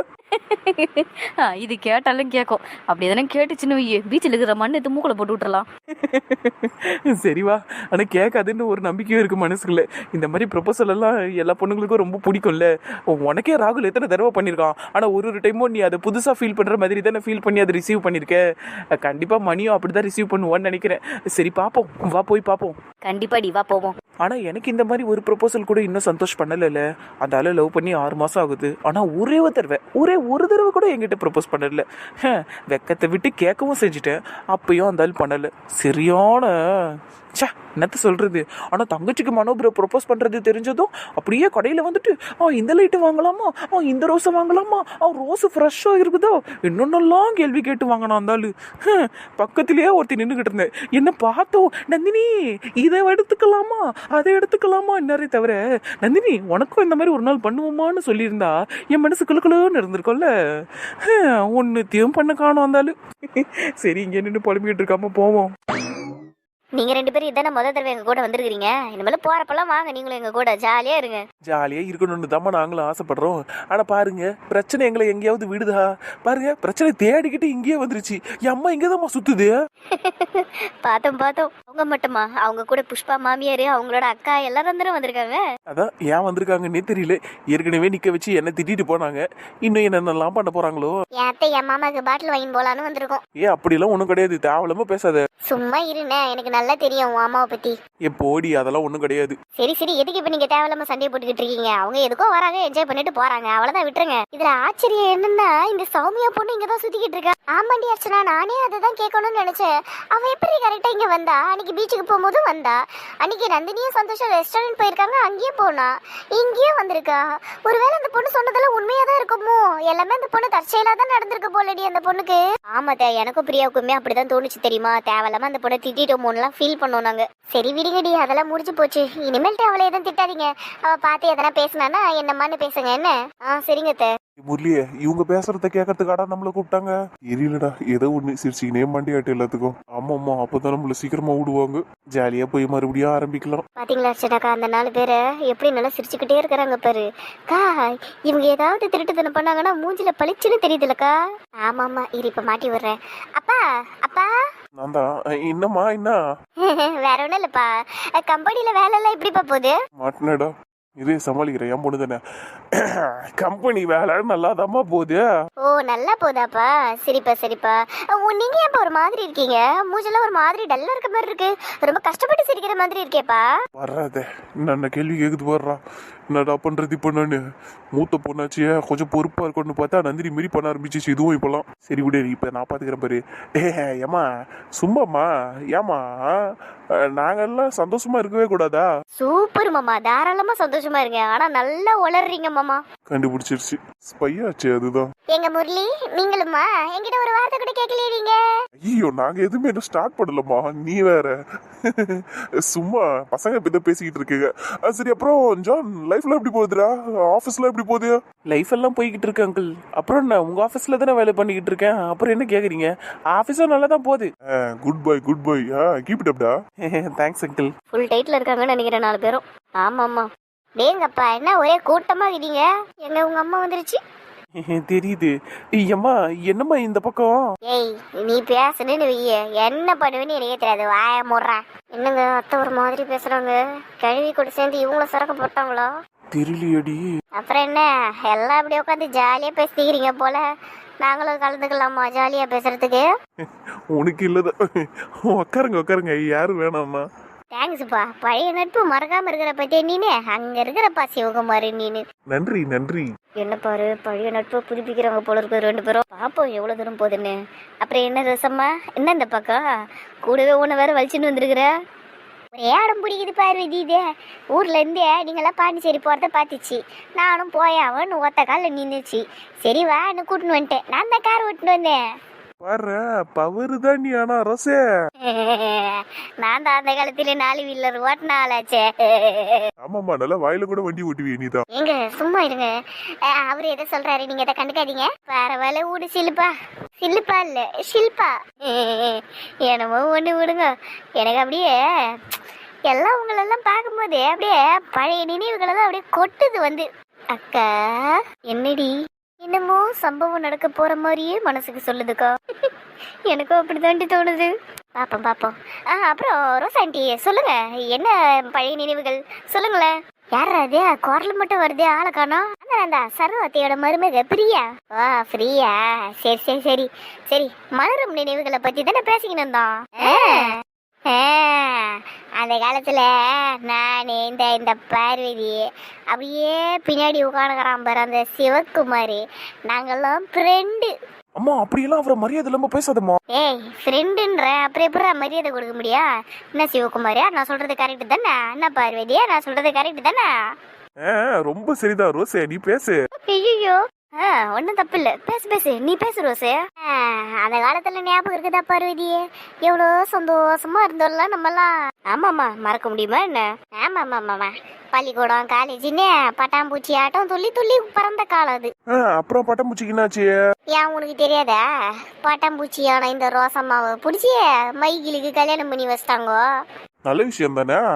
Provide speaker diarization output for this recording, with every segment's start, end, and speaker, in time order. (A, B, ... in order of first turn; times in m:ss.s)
0:00.3-0:05.7 A
0:06.0-0:18.4 B
0:19.0-0:22.8 B
0:23.0-0:23.9 A
0:24.2-1:00.3 B
1:01.0-1:05.5 B
1:06.8-1:11.2 C
1:11.5-1:19.5 B
1:19.9-1:25.4 C
1:25.8-1:29.0 B
1:28.6-1:29.2 D
1:29.7-1:30.8 B
1:31.2-1:33.2 C
1:33.4-1:35.2 B
1:35.5-1:37.8 C
1:38.1-1:39.3 B
1:39.6-2:14.1 C
2:14.4-2:23.6 D
2:23.8-2:34.3 C
2:34.8-2:36.2 D
2:36.6-2:39.8 C
2:40.0-2:42.2 D
2:42.7-2:45.2 D
2:45.6-2:53.5 C
2:53.8-2:57.4 D
2:57.9-3:08.9 D
3:09.2-3:12.8 C
3:13.1-3:15.1 D
3:15.3-3:18.4 C
3:18.8-3:28.2 D
3:28.5-3:34.3 B
3:34.5-3:36.5 D
3:36.9-3:37.7 B
3:37.9-3:40.3 C
3:40.8-3:44.0 C
3:44.6-3:47.3 B
3:47.6-3:55.9 C
3:56.3-3:57.0 D
3:57.4-4:00.4 C
4:01.0-4:03.1 C
4:03.9-4:07.0 D
4:07.5-4:12.0 C
4:12.3-4:13.1 D
4:13.4-4:19.6 C
4:20.2-4:21.7 C
4:22.5-4:32.0 C
4:32.6-4:34.8 D
4:35.2-4:39.7 C
4:39.8-4:41.6 D
4:41.7-4:42.7 C
4:43.2-4:52.1 C
4:52.9-5:02.3 C
5:03.3-5:30.9 C
5:31.4-5:33.2 B
5:33.3-5:40.3 C
5:41.0-5:43.0 D
5:43.3-5:58.7 C
5:58.9-6:00.3 D
6:00.7-6:01.6 C
6:02.2-6:06.4 C
6:07.0-6:07.8 D